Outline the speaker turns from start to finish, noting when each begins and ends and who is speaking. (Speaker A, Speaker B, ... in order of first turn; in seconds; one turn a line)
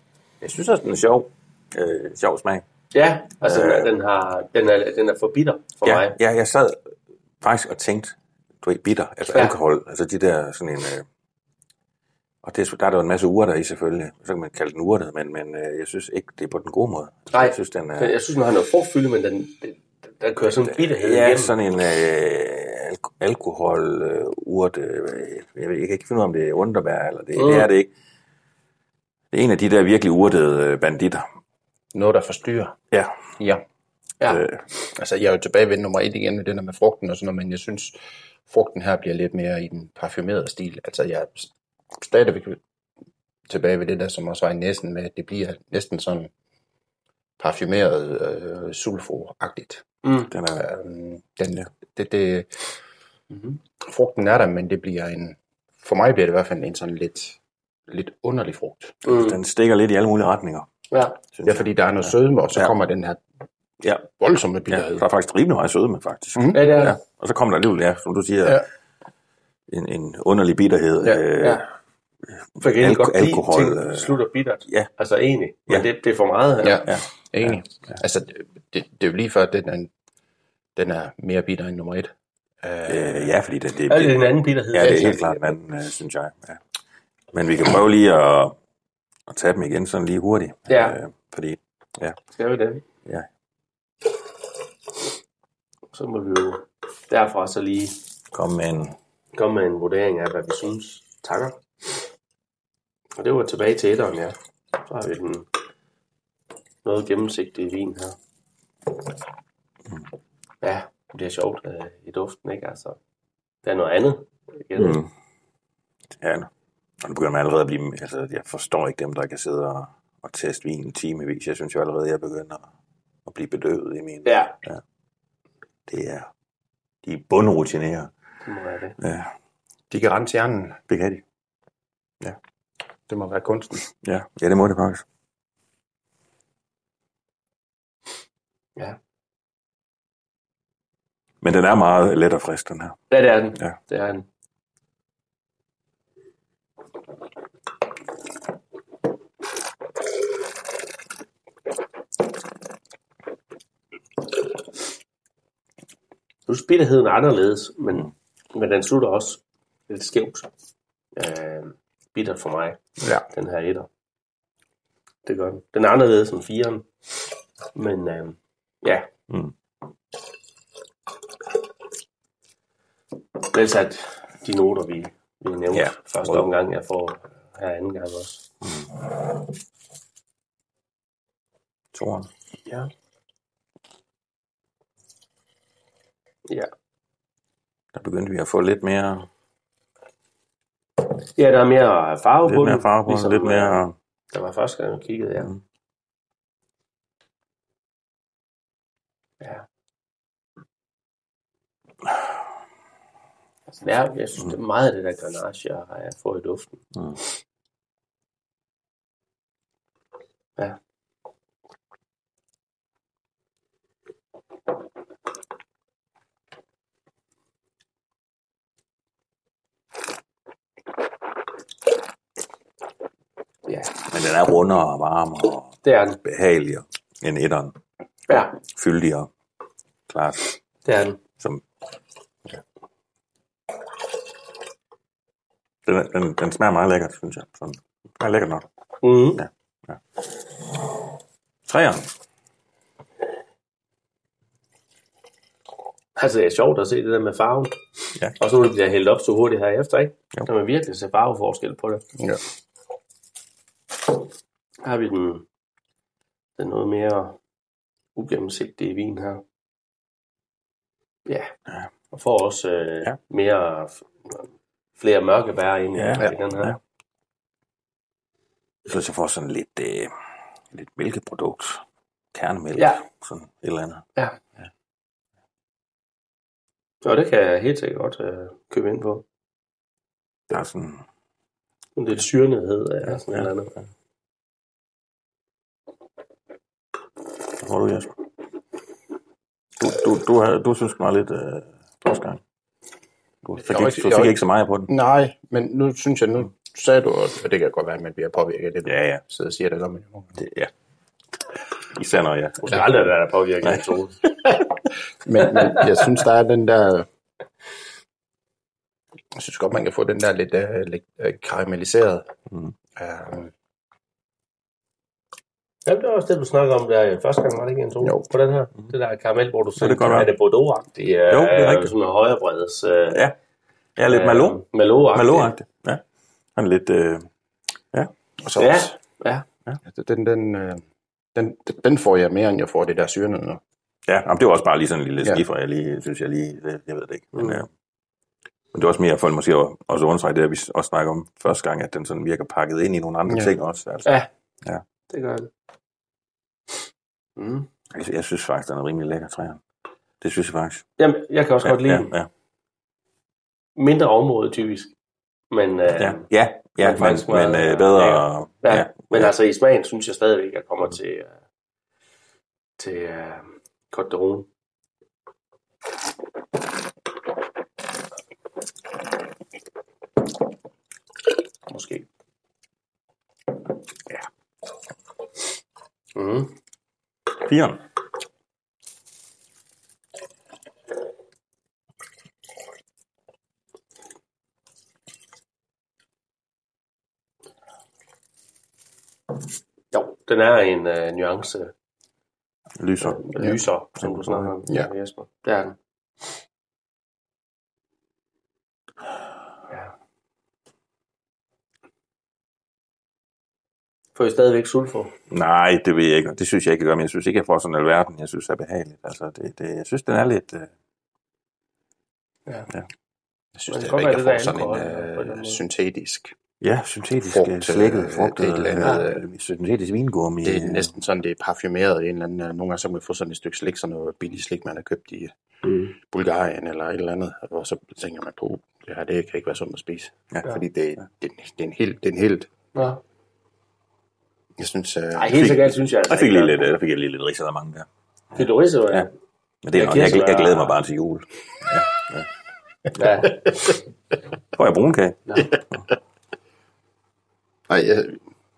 Speaker A: 0.4-2.6
Speaker B: 2.9-6.1
Speaker A: 3.4-3.9
Speaker A: 5.8-6.8
Speaker A: 7.4-11.0
Speaker A: 12.4-18.1
Speaker B: 17.3-21.5
Speaker A: 20.6-27.9
Speaker B: 27.4-27.7
Speaker A: 29.3-31.2
Speaker C: 31.9-32.8
Speaker C: 33.4-33.6
Speaker A: 34.3-34.6
Speaker C: 34.9-38.0
Speaker C: 38.5-42.6
Speaker C: 43.5-46.3
Speaker C: 47.4-49.9
Speaker B: 50.0-50.3
Speaker A: 50.3-50.6
Speaker C: 50.5-52.5
Speaker C: 53.8-59.0
Speaker B: 59.0-59.4
Speaker A: 59.0-60.7
Speaker B: 60.9-61.2
Speaker A: 61.3-61.6
Speaker C: 61.5-63.2
Speaker A: 63.8-64.1
Speaker C: 64.2-65.0
Speaker A: 64.7-68.6
Speaker C: 66.3-66.8
Speaker B: 66.5-67.0
Speaker A: 69.7-71.6
Speaker A: 72.5-74.1
Speaker B: 72.6-76.8
Speaker C: 76.6-79.9
Speaker A: 76.8-77.6
Speaker C: 80.8-83.3
Speaker A: 82.9-86.6
Speaker B: 83.9-85.2
Speaker C: 84.8-85.5
Speaker A: 87.3-88.5
Speaker A: 89.3-92.2
Speaker B: 90.7-91.0
Speaker B: 92.3-92.8
Speaker B: 95.9-98.0
Speaker A: 98.3-98.9
Speaker B: 99.3-101.6
Speaker B: 103.2-105.5
Speaker B: 106.8-108.2
Speaker B: 110.6-113.0
Speaker B: 113.6-115.0
Speaker A: 114.8-115.1
Speaker A: 116.2-116.5
Speaker A: 117.0-122.7
Speaker A: 123.2-124.8
Speaker B: 124.2-124.5
Speaker A: 125.9-126.3
Speaker A: 127.0-128.1
Speaker B: 128.4-128.9
Speaker A: 129.0-129.3
Speaker C: 129.9-130.8
Speaker A: 130.9-131.2
Speaker C: 133.1-133.8
Speaker A: 134.0-135.0
Speaker A: 141.4-143.0
Speaker B: 143.1-144.2
Speaker B: 156.5-160.5
Speaker B: 161.2-162.8
Speaker B: 163.3-163.9
Speaker B: 165.2-166.9
Speaker B: 167.7-169.1
Speaker B: 173.4-178.4
Speaker A: 175.7-176.5
Speaker A: 178.6-178.9
Speaker A: 181.9-182.3
Speaker A: 187.9-189.3
Speaker B: 191.3-195.5
Speaker A: 192.4-193.9
Speaker B: 203.7-206.8
Speaker B: 223.7-223.9
Speaker A: 224.0-227.7
Speaker B: 225.8-226.2
Speaker B: 228.3-228.6
Speaker A: 228.6-229.3
Speaker A: 230.1-230.5
Speaker B: 230.8-231.2
Speaker A: 235.8-238.7
Speaker B: 239.0-239.4
Speaker A: 239.3-240.0
Speaker A: 241.7-242.1
Speaker B: 246.2-247.8
Speaker B: 248.4-252.0
Speaker B: 254.8-255.4
Speaker B: 256.6-257.4
Speaker B: 258.1-259.4
Speaker B: 262.1-264.5
Speaker B: 265.0-266.7
Speaker A: 266.0-266.8
Speaker A: 268.9-270.1
Speaker A: 270.7-271.8
Speaker A: 272.3-274.0
Speaker B: 277.0-279.2
Speaker A: 280.5-281.0
Speaker B: 281.9-283.7
Speaker A: 287.6-288.1
Speaker A: 289.8-292.4
Speaker A: 293.4-294.9
Speaker C: 293.6-300.4
Speaker A: 298.9-299.2
Speaker A: 300.4-300.7
Speaker A: 301.9-303.0
Speaker B: 302.6-304.3
Speaker C: 305.2-307.1
Speaker C: 309.3-312.3
Speaker C: 313.0-313.5
Speaker B: 315.9-323.3
Speaker A: 319.8-320.3
Speaker A: 321.3-321.9
Speaker A: 324.0-324.6
Speaker B: 324.1-325.5
Speaker A: 325.1-326.0
Speaker A: 326.6-327.3
Speaker C: 328.4-328.9
Speaker B: 328.6-329.4
Speaker C: 329.8-330.8
Speaker C: 331.3-333.6
Speaker A: 334.1-337.7
Speaker B: 337.3-337.6
Speaker A: 338.7-344.8
Speaker B: 345.1-345.5
Speaker B: 347.4-347.7
Speaker A: 347.9-349.6
Speaker A: 350.2-350.9
Speaker B: 351.0-352.1
Speaker A: 351.6-352.3
Speaker B: 353.8-354.9
Speaker B: 355.5-356.3
Speaker A: 356.0-359.3
Speaker B: 356.8-361.3
Speaker B: 362.8-364.5
Speaker B: 371.7-372.0
Speaker B: 376.1-376.5
Speaker A: 377.4-377.8
Speaker B: 389.9-391.7
Speaker A: 392.8-393.2
Speaker B: 393.0-395.8
Speaker A: 394.0-394.5
Speaker B: 404.1-405.1
Speaker A: 405.3-410.7
Speaker C: 413.6-416.3
Speaker B: 413.7-415.6
Speaker A: 416.6-420.9
Speaker C: 417.3-419.2
Speaker C: 420.4-425.3
Speaker B: 425.6-425.9
Speaker C: 426.0-432.5
Speaker B: 432.7-433.0
Speaker C: 434.6-435.6
Speaker B: 435.1-436.7
Speaker A: 435.3-439.1
Speaker B: 438.3-439.1
Speaker A: 439.6-442.2
Speaker B: 439.7-440.8
Speaker B: 442.9-443.6
Speaker A: 444.5-445.8
Speaker C: 447.7-448.2